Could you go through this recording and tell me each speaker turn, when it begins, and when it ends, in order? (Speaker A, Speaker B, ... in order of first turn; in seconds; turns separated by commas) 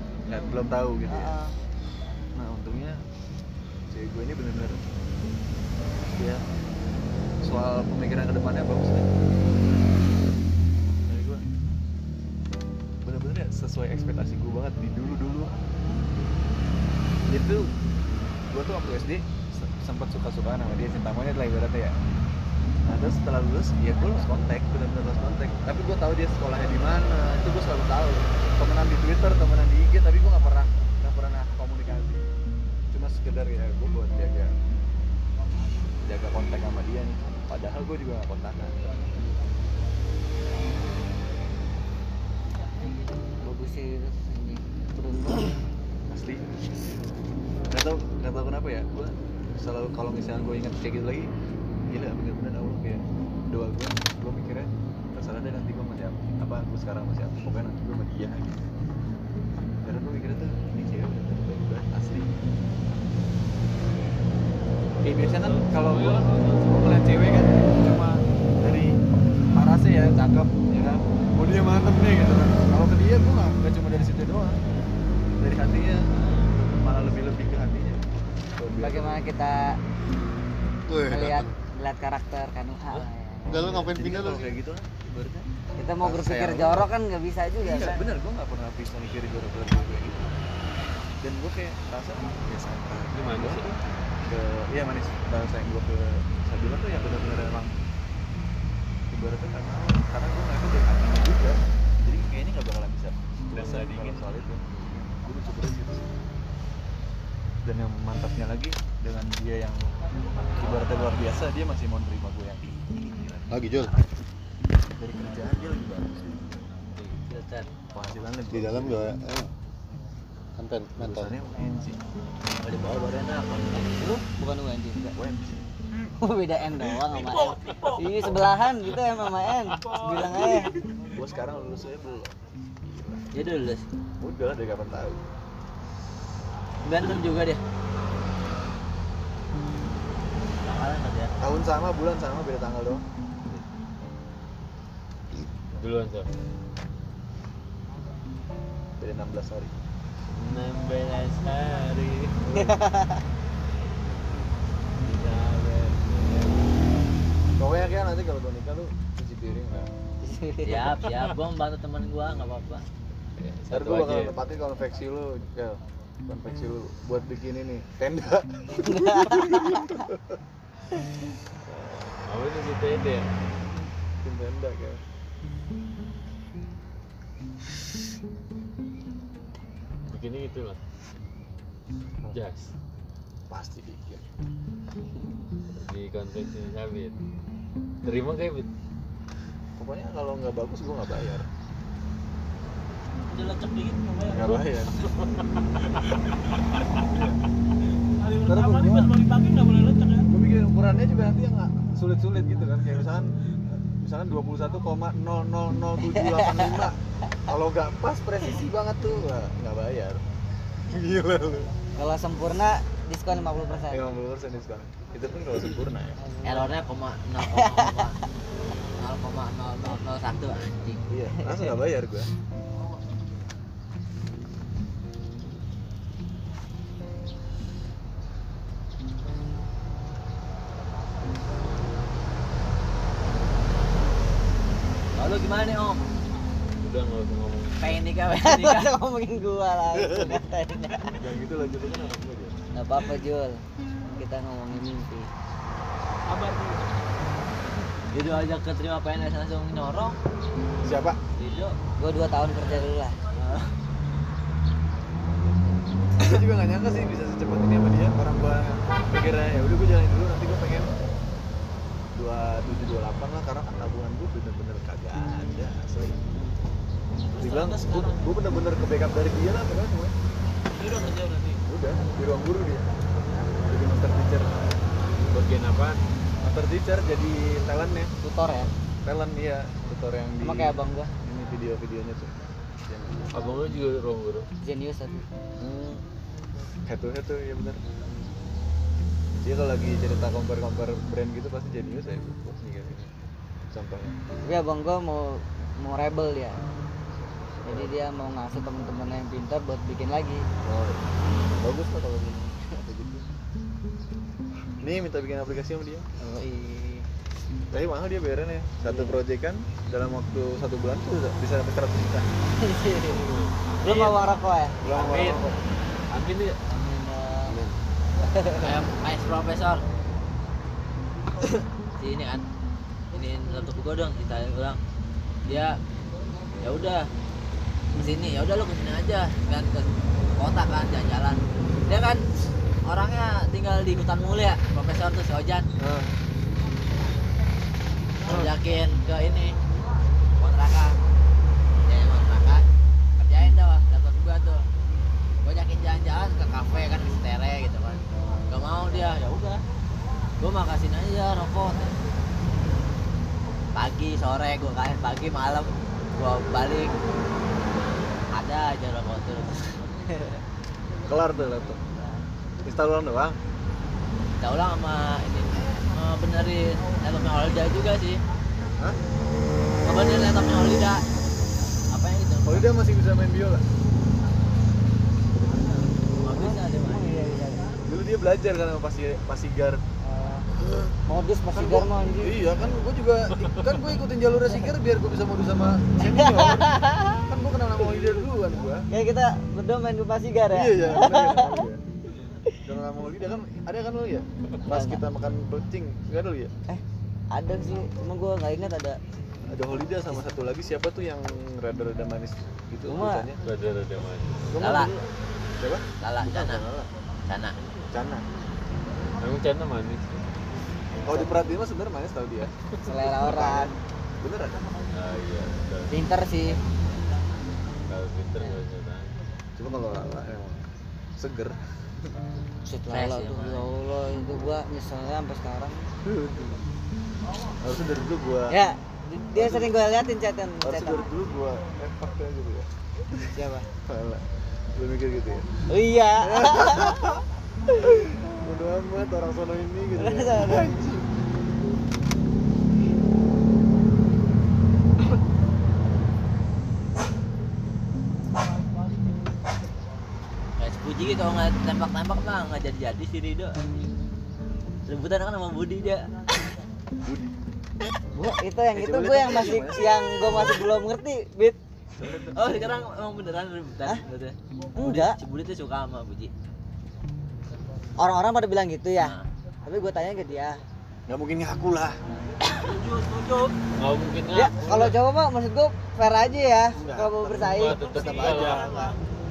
Speaker A: 0.3-1.3, Speaker B: 1.1-1.5, Speaker A: 2.4-3.0, Speaker A: 3.9-4.8, Speaker A: 6.1-6.4, Speaker A: 7.4-9.1, Speaker A: 11.1-11.5, Speaker A: 13.0-15.5, Speaker A: 17.3-17.7, Speaker A: 18.5-22.0, Speaker A: 22.9-32.3, Speaker A: 32.9-34.6, Speaker A: 36.0-38.8, Speaker B: 43.4-45.6, Speaker A: 46.1-46.5, Speaker A: 47.7-51.3, Speaker A: 51.9-58.6, Speaker A: 59.8-62.3, Speaker A: 65.0-69.0, Speaker C: 65.4-66.8, Speaker A: 69.5-74.6, Speaker A: 75.4-76.1, Speaker A: 76.8-78.0, Speaker A: 78.6-79.2, Speaker B: 78.8-79.8, Speaker D: 80.9-81.5, Speaker B: 81.0-83.8, Speaker D: 83.5-84.5, Speaker A: 83.5-85.5, Speaker B: 85.8-88.0, Speaker A: 86.0-86.9, Speaker A: 87.6-90.4, Speaker A: 91.2-93.8, Speaker C: 93.1-93.7, Speaker A: 94.3-97.7, Speaker A: 99.1-106.1, Speaker C: 103.5-105.0, Speaker A: 107.6-109.9, Speaker A: 110.5-113.9, Speaker D: 113.5-113.9, Speaker A: 115.0-116.6, Speaker E: 117.0-117.7, Speaker A: 117.9-119.2, Speaker D: 118.5-119.5, Speaker D: 120.6-121.3, Speaker A: 121.0-122.0, Speaker E: 122.6-124.0, Speaker B: 124.0-125.2, Speaker A: 125.2-125.7, Speaker B: 126.2-130.8, Speaker E: 127.1-128.1, Speaker A: 130.9-133.3, Speaker E: 133.3-133.9, Speaker A: 134.2-135.2, Speaker E: 136.8-137.6, Speaker E: 140.6-141.3, Speaker A: 141.4-143.1, Speaker C: 145.7-146.3, Speaker A: 149.0-149.7, Speaker C: 150.3-152.4, Speaker A: 152.4-152.8, Speaker B: 152.6-153.2, Speaker C: 155.0-156.7, Speaker A: 157.6-159.9, Speaker B: 160.2-160.9, Speaker E: 160.6-162.8, Speaker C: 163.4-164.4, Speaker A: 163.7-170.4, Speaker B: 168.8-170.0, Speaker A: 171.7-172.0, Speaker C: 172.2-173.3, Speaker A: 174.2-175.0, Speaker C: 180.1-180.8, Speaker C: 182.3-182.7, Speaker A: 183.5-184.2, Speaker C: 185.7-187.2, Speaker C: 188.0-188.7, Speaker A: 189.8-191.5, Speaker E: 193.3-194.6, Speaker A: 194.3-195.2, Speaker A: 197.0-197.4, Speaker E: 198.2-200.3, Speaker A: 198.4-199.2, Speaker A: 200.3-210.2, Speaker B: 206.2-206.8, Speaker A: 210.8-211.7, Speaker B: 212.0-214.1, Speaker A: 213.9-216.2, Speaker B: 216.4-216.7, Speaker E: 216.4-218.2, Speaker B: 217.6-218.1, Speaker E: 219.0-221.1, Speaker A: 221.1-222.3, Speaker B: 221.4-221.7, Speaker E: 235.2-236.0, Speaker C: 236.8-238.1, Speaker E: 237.8-238.9, Speaker B: 238.3-241.2, Speaker A: 239.9-240.3, Speaker A: 241.1-242.6, Speaker B: 242.8-245.3, Speaker E: 246.3-246.9, Speaker E: 248.1-250.2, Speaker A: 250.8-251.2, Speaker E: 251.4-251.8, Speaker B: 252.0-253.2, Speaker E: 253.3-253.7, Speaker A: 256.2-260.9, Speaker A: 262.1-266.2, Speaker E: 267.3-268.3, Speaker A: 267.4-270.1, Speaker E: 270.8-271.6, Speaker A: 271.6-272.9, Speaker A: 273.7-274.6, Speaker C: 275.3-276.0, Speaker A: 276.4-278.1, Speaker B: 278.2-278.7, Speaker A: 279.0-283.4, Speaker B: 280.4-281.1, Speaker C: 283.3-284.5, Speaker B: 284.6-285.3, Speaker A: 285.6-286.0, Speaker A: 286.9-287.8, Speaker A: 289.4-293.1, Speaker A: 293.7-294.2, Speaker B: 294.4-296.6, Speaker A: 297.7-297.9, Speaker B: 297.7-300.5, Speaker A: 300.6-303.2, Speaker A: 304.8-306.1, Speaker B: 306.2-307.1, Speaker A: 307.7-312.3, Speaker B: 308.9-309.2, Speaker B: 312.6-313.3, Speaker C: 313.1-313.7, Speaker B: 313.8-314.8, Speaker E: 313.8-314.2, Speaker A: 314.8-315.6, Speaker E: 314.9-315.2, Speaker C: 315.1-315.3, Speaker C: 316.1-316.6, Speaker B: 316.7-317.6, Speaker C: 317.4-317.8, Speaker B: 318.2-318.7, Speaker E: 318.6-319.8, Speaker E: 322.0-322.5, Speaker E: 323.1-324.8, Speaker E: 325.5-325.8, Speaker E: 326.6-327.1, Speaker E: 328.0-332.2, Speaker E: 332.9-335.7, Speaker A: 335.8-336.1, Speaker A: 338.2-338.5, Speaker E: 338.2-339.6, Speaker E: 340.4-341.1, Speaker E: 341.8-342.6, Speaker E: 343.2-344.7, Speaker E: 345.4-349.6, Speaker E: 350.4-352.0, Speaker E: 353.8-357.0, Speaker E: 358.3-360.4, Speaker A: 361.1-361.9, Speaker A: 362.6-363.4, Speaker E: 364.4-368.2, Speaker E: 369.8-371.1, Speaker E: 371.9-372.7, Speaker A: 372.4-373.7, Speaker E: 376.2-377.1, Speaker B: 376.3-377.7, Speaker A: 377.9-379.8, Speaker B: 380.1-380.5, Speaker A: 380.6-380.9, Speaker B: 381.1-382.4, Speaker A: 381.5-386.7, Speaker B: 386.0-387.3, Speaker A: 387.2-388.9, Speaker B: 388.9-391.6, Speaker A: 390.5-391.8, Speaker A: 392.6-396.5, Speaker B: 394.7-395.0, Speaker B: 396.7-399.0, Speaker A: 399.4-403.4, Speaker B: 402.9-403.3, Speaker C: 403.4-404.5, Speaker A: 404.5-404.9, Speaker E: 404.6-404.9, Speaker A: 405.6-406.9, Speaker E: 406.0-406.6, Speaker E: 407.3-407.6, Speaker A: 407.9-408.2, Speaker C: 409.2-410.1, Speaker B: 411.1-411.4, Speaker A: 411.1-414.7, Speaker B: 412.8-413.8, Speaker C: 414.9-415.9, Speaker B: 415.9-416.6, Speaker C: 417.9-419.1, Speaker A: 419.6-420.6, Speaker A: 421.2-421.6, Speaker B: 422.7-425.9, Speaker E: 422.9-423.7, Speaker A: 426.0-426.6, Speaker A: 427.6-428.6, Speaker B: 428.5-431.1, Speaker A: 429.4-429.7, Speaker A: 430.6-433.2, Speaker B: 433.3-433.7, Speaker A: 433.9-435.6, Speaker B: 435.7-437.2, Speaker A: 436.2-437.3, Speaker A: 437.8-441.1, Speaker B: 440.0-440.8, Speaker E: 450.6-453.7, Speaker E: 454.9-456.1, Speaker A: 457.0-457.4, Speaker B: 458.1-461.6, Speaker A: 458.7-460.8, Speaker A: 461.9-462.8, Speaker E: 462.3-466.3, Speaker B: 464.8-465.2, Speaker B: 468.0-470.6, Speaker E: 469.0-469.3, Speaker A: 471.1-472.0, Speaker E: 472.4-473.6, Speaker C: 473.7-474.9, Speaker B: 474.3-478.9, Speaker A: 476.8-478.7, Speaker C: 477.5-478.7, Speaker E: 477.8-479.0